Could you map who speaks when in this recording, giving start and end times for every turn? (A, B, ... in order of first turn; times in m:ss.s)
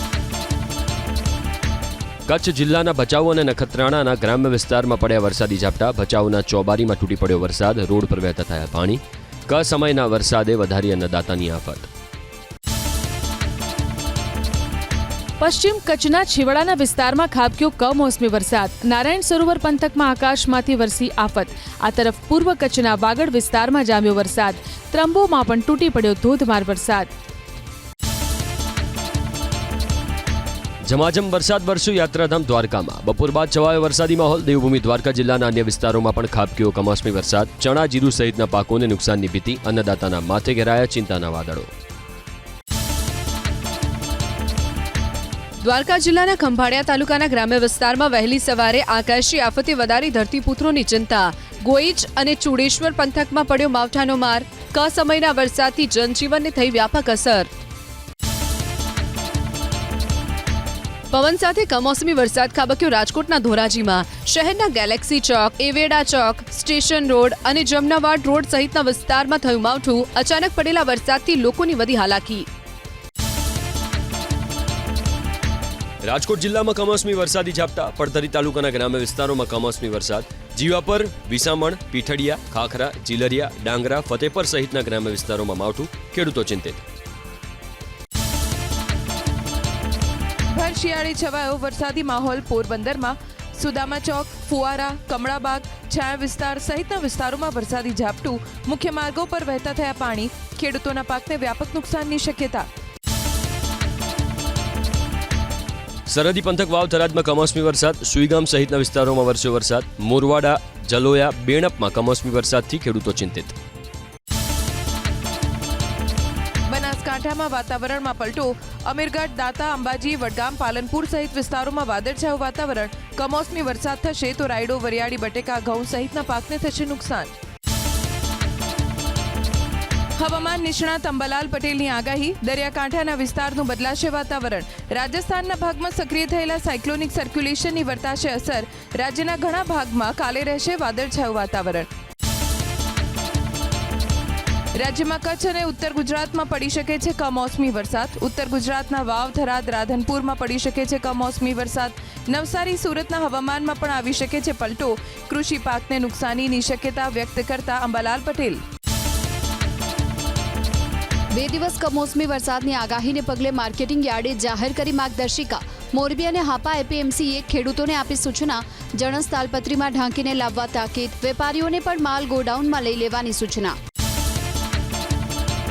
0:02.3-0:11.9 A
0:15.4-0:27.1 B
0:30.8-0:41.7 A
0:45.6-0:57.5 C
1:01.1-1:12.5 C
1:16.0-1:26.8 A
1:30.5-1:42.7 D
1:46.0-1:53.5 A
1:56.7-2:07.3 D
2:10.2-2:21.9 D
2:24.7-2:38.6 D
2:41.3-2:53.7 E